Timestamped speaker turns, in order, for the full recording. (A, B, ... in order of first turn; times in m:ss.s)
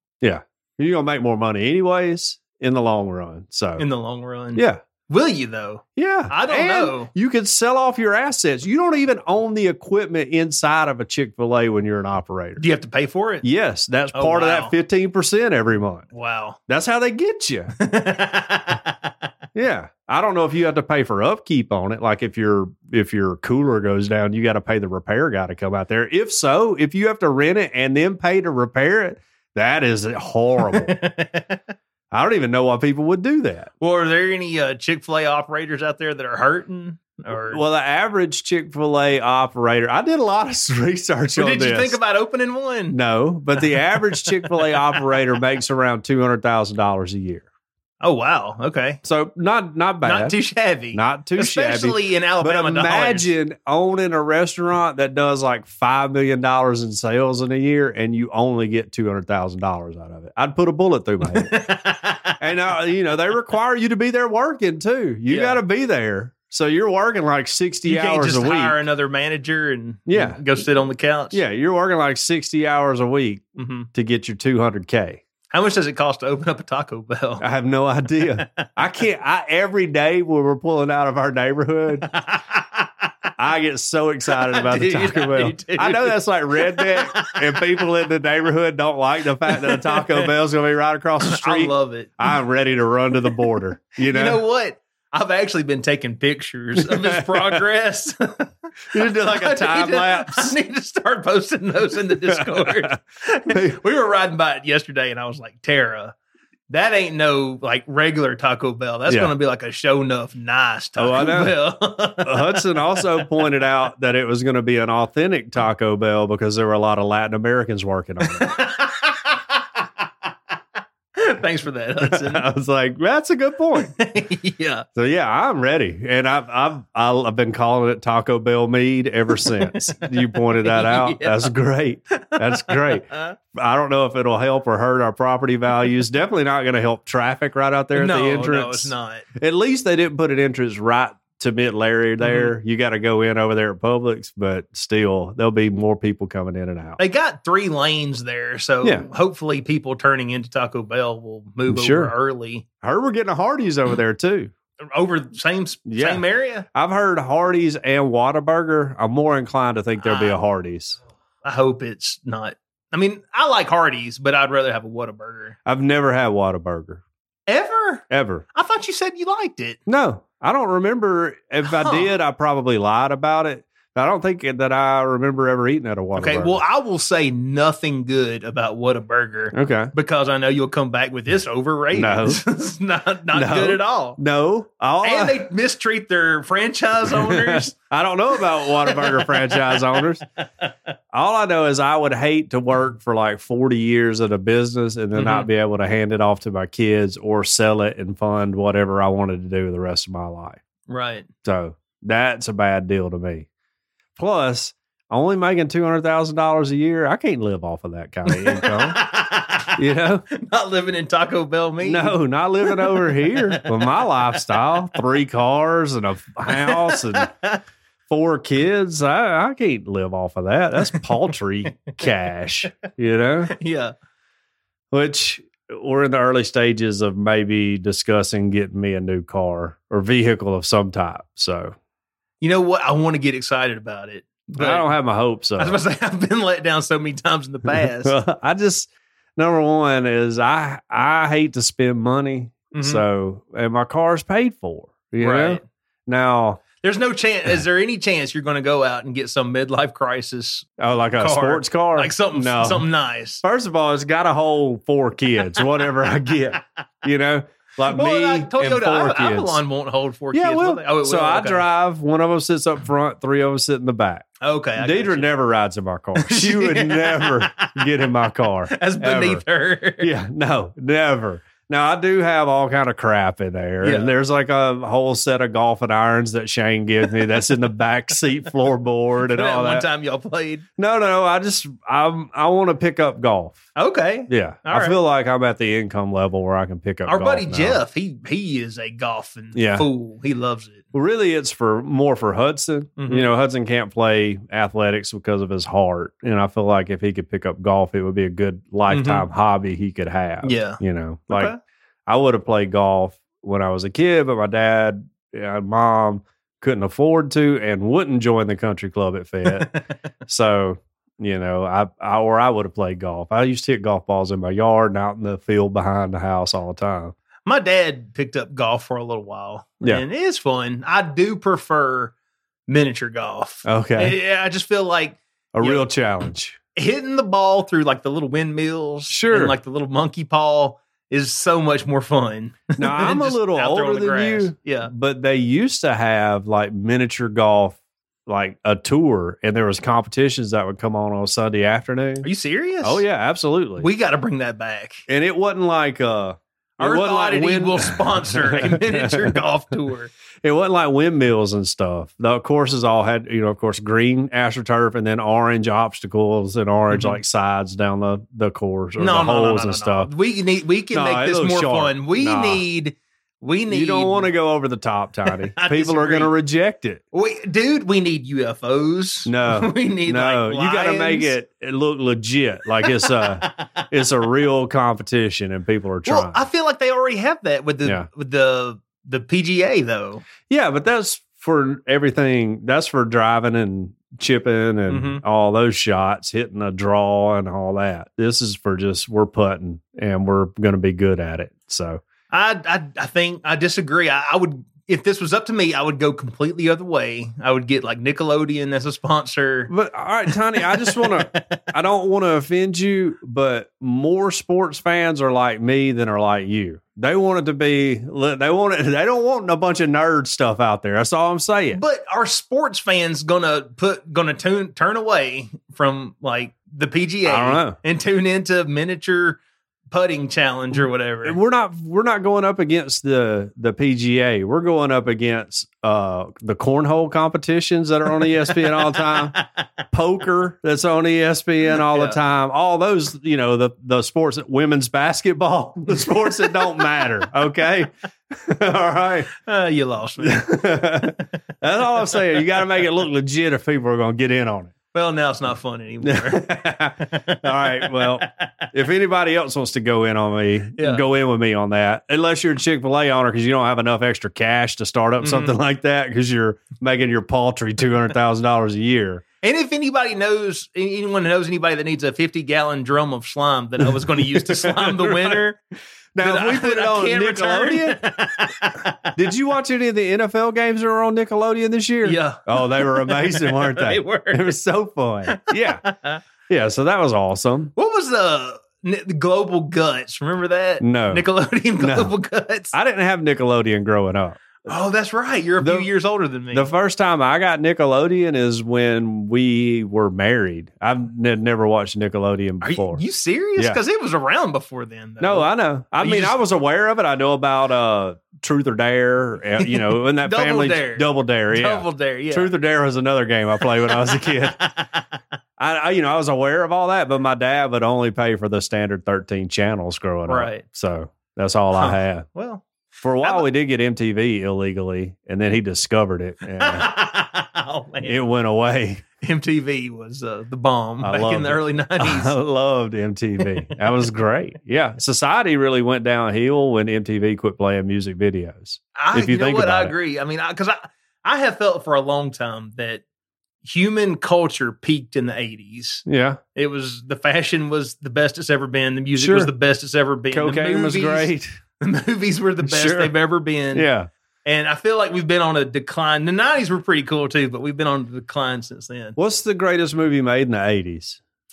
0:00.2-0:03.8 A
0:03.8-0:07.1 B
0:04.6-0:04.8 A
0:06.0-0:12.6 A
0:12.6-0:13.5 B
0:13.4-0:16.1 A
0:14.1-0:14.7 B
0:16.1-0:16.6 B
0:16.7-0:17.8 A
0:17.8-0:19.1 B
0:19.5-0:31.0 A
0:30.6-0:31.6 B
0:32.1-0:33.7 A
0:33.8-0:37.6 B
0:37.5-0:42.0 A
0:41.4-0:43.0 B
0:42.9-0:47.5 A
0:43.6-0:45.2 B
0:48.0-0:49.0 B
0:49.0-0:50.4 A
0:50.0-0:53.3 B
0:50.9-1:01.6 A
1:01.3-1:02.4 B
1:02.4-1:08.8 A
1:05.3-1:05.6 B
1:07.8-1:11.4 B
1:10.1-1:10.4 A
1:11.3-1:15.2 A
1:13.6-1:13.9 B
1:15.5-1:17.5 B
1:17.4-1:22.1 A
1:18.4-1:18.7 B
1:22.1-1:23.1 B
1:23.4-1:34.4 A
1:24.3-1:27.7 B
1:29.5-1:30.3 B
1:31.2-1:32.4 B
1:34.0-1:46.2 B
1:36.8-1:37.6 A
1:38.9-1:40.5 A
1:42.3-1:42.8 A
1:43.5-1:43.8 A
1:46.7-1:53.0 B
1:51.0-1:51.6 A
1:52.2-1:58.5 A
1:58.3-1:59.6 B
2:01.2-2:02.5 B
2:02.0-2:04.0 A
2:03.9-2:04.9 B
2:05.0-2:27.0 A
2:09.5-2:10.1 B
2:10.6-2:11.5 B
2:12.1-2:13.4 B
2:17.9-2:19.3 B
2:22.2-2:22.5 B
2:27.0-2:32.6 B
2:31.7-2:32.1 A
2:32.8-2:34.5 A
2:34.9-2:36.7 B
2:35.9-2:41.0 A
2:40.0-2:40.4 B
2:41.4-2:45.6 B
2:45.7-2:47.0 A
2:47.5-2:49.8 B
2:48.1-2:48.4 A
2:49.9-2:56.6 A
2:51.6-2:52.1 B
2:56.2-3:04.2 B
2:59.5-2:59.9 A
3:01.9-3:02.4 A
3:03.3-3:05.5 A
3:05.0-3:07.8 B
3:07.0-3:10.2 A
3:08.4-3:10.1 B
3:11.1-3:20.6 A
3:15.2-3:15.5 B
3:20.9-3:21.3 B
3:21.4-3:23.5 A
3:24.2-3:29.0 A
3:28.3-3:29.8 B
3:29.8-3:30.2 A
3:30.3-3:34.7 B
3:31.8-3:37.4 A
3:36.5-3:37.6 B
3:38.1-3:43.6 A
3:43.5-3:43.9 B
3:44.9-3:51.8 A
3:52.4-3:54.9 B
3:54.6-3:55.8 A
3:55.6-3:58.2 B
3:57.7-4:06.6 A
4:02.7-4:03.0 B
4:05.2-4:05.6 B
4:06.8-4:13.4 B
4:10.8-4:12.9 A
4:13.4-4:19.6 A
4:17.9-4:21.7 B
4:20.3-4:24.3 A
4:24.4-4:25.3 B
4:24.8-4:29.4 A
4:26.2-4:27.9 B
4:28.7-4:30.1 B
4:30.0-4:39.9 A
4:33.8-4:34.1 B
4:37.1-4:37.4 B
4:39.3-4:40.6 B
4:40.8-4:43.7 A
4:43.8-4:45.0 B
4:44.3-4:47.8 A
4:47.1-4:50.8 B
4:49.5-4:49.9 A
4:50.9-5:01.5 A
4:53.0-4:53.3 B
4:58.9-4:59.2 B
5:00.4-5:01.6 B
5:02.1-5:17.2 A
5:09.5-5:09.8 B
5:17.4-5:22.1 B
5:22.7-5:25.9 B
5:23.6-5:24.2 A
5:25.5-5:26.6 A
5:26.8-5:34.9 B
5:29.1-5:29.5 A
5:32.8-5:42.3 A
5:42.2-5:43.0 B
5:42.8-5:43.9 A
5:43.8-5:45.0 B
5:45.1-5:49.4 A
5:46.8-5:50.1 B
5:50.4-6:00.1 A
5:56.9-5:57.2 B
5:59.0-6:04.3 B
6:00.9-6:02.6 A
6:03.7-6:07.0 A
6:05.3-6:06.3 B
6:07.1-6:11.4 B
6:09.3-6:16.4 A
6:12.8-6:13.9 B
6:16.1-6:20.3 B
6:20.5-6:32.0 A
6:24.9-6:25.2 B
6:32.3-6:39.7 B
6:39.7-6:51.8 A
6:40.3-6:41.7 B
6:51.7-6:59.4 B
6:57.2-6:57.8 A
6:59.9-7:01.4 B
7:01.2-7:09.4 A
7:08.2-7:09.6 B
7:09.9-7:19.3 A
7:11.8-7:12.2 B
7:15.9-7:17.1 B
7:19.4-7:21.2 B
7:20.2-7:24.7 A
7:24.9-7:28.3 B
7:26.0-7:39.2 A
7:30.8-7:31.0 B
7:35.2-7:35.6 B
7:39.4-7:45.6 B
7:43.8-7:45.4 A
7:46.2-7:48.0 A
7:46.2-7:49.1 B
7:49.2-7:55.9 A
7:52.0-7:54.6 B
7:55.3-7:56.2 B
7:56.5-7:57.7 A
7:57.8-8:02.7 B
8:00.8-8:01.2 A
8:01.8-8:02.1 A
8:02.7-8:04.6 A
8:04.7-8:06.7 B
8:05.6-8:05.9 A
8:06.5-8:13.0 A
8:12.6-8:16.4 B
8:15.2-8:24.7 A
8:19.6-8:22.5 B
8:23.9-8:25.0 B
8:25.6-8:32.3 A
8:30.3-8:30.6 B
8:31.7-8:32.7 B
8:33.0-8:36.9 A
8:36.6-8:38.2 B
8:38.0-8:39.0 A
8:39.2-8:42.4 B
8:41.0-8:50.0 A
8:49.0-8:53.0 B
8:53.6-9:03.9 B
8:56.1-8:56.4 A
8:59.2-8:59.5 A
9:00.3-9:01.5 A
9:02.6-9:03.2 A
9:03.7-9:04.1 A
9:04.4-9:09.2 B
9:09.2-9:11.2 A